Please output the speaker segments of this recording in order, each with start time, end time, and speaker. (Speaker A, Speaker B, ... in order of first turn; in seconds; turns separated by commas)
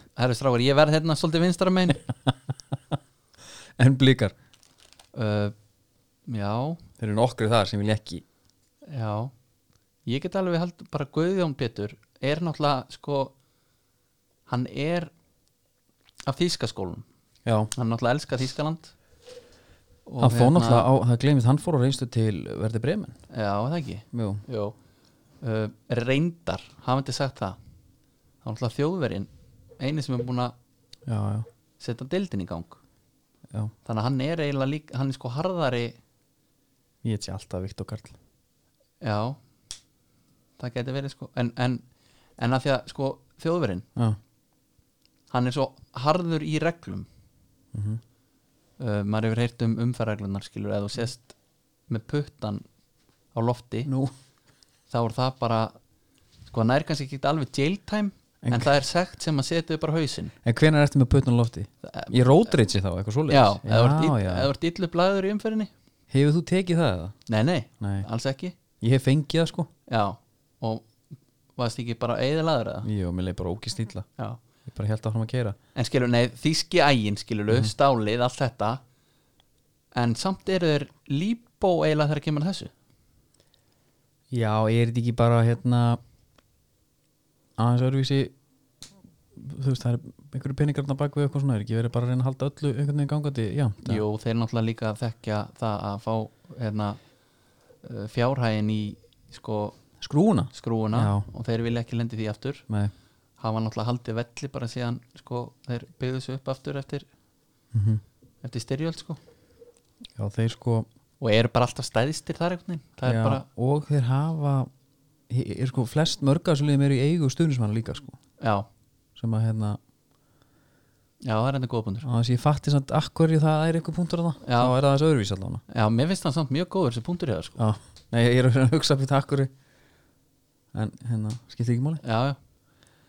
Speaker A: 0.2-2.0, Speaker B: 3.8-4.3, Speaker A: 5.1-5.5, Speaker A: 6.3-6.8, Speaker B: 7.0-8.2, Speaker A: 8.9-9.3, Speaker A: 10.1-13.3, Speaker A: 14.5-15.1, Speaker A: 16.3-17.0, Speaker B: 17.4-17.7, Speaker A: 17.7-18.9, Speaker A: 20.1-20.9, Speaker B: 20.2-23.2, Speaker A: 23.3-24.8, Speaker B: 24.1-24.4, Speaker A: 25.4-27.6, Speaker A: 28.4-29.3, Speaker A: 29.8-30.5, Speaker B: 31.1-31.5, Speaker A: 31.8-32.8, Speaker A: 33.8-36.0, Speaker B: 37.0-38.1, Speaker A: 39.0-39.4, Speaker A: 40.6-41.8, Speaker A: 42.4-43.9, Speaker A: 45.3-47.0, Speaker B: 47.7-48.0, Speaker A: 48.8-51.3, Speaker A: 51.9-52.6, Speaker A: 53.3-53.9, Speaker B: 53.9-54.1, Speaker A: 54.9-55.7, Speaker A: 56.5-60.3, Speaker B: 58.4-58.7, Speaker B: 60.4-64.5, Speaker A: 61.8-62.1, Speaker A: 63.3-65.7, Speaker B: 66.1-67.1, Speaker A: 67.3-68.5, Speaker B: 67.8-68.0, Speaker B: 68.8-69.7, Speaker A: 69.9-70.9, Speaker A: 71.6-72.9, Speaker B: 72.8-74.0, Speaker B: 74.7-75.6, Speaker A: 75.7-78.8, Speaker A: 79.9-82.7, Speaker B: 84.3-86.0, Speaker B: 87.6-88.3, Speaker B: 89.3-94.0, Speaker A: 93.8-97.0, Speaker A: 97.8-99.8, Speaker B: 100.0-101.2, Speaker A: 100.5-102.7, Speaker A: 103.4-107.0, Speaker B: 107.7-108.0, Speaker A: 108.4-109.2, Speaker B: 110.2-110.9, Speaker A: 111.2-113.4, Speaker B: 113.0-114.7, Speaker B: 115.3-118.2, Speaker A: 118.4-118.7, Speaker B: 119.2-119.8, Speaker A: 121.2-122.0, Speaker B: 122.0-125.6, Speaker A: 124.4-124.7, Speaker A: 125.7-127.6, Speaker B: 127.6-129.5, Speaker B: 130.7-132.0, Speaker A: 132.0-132.4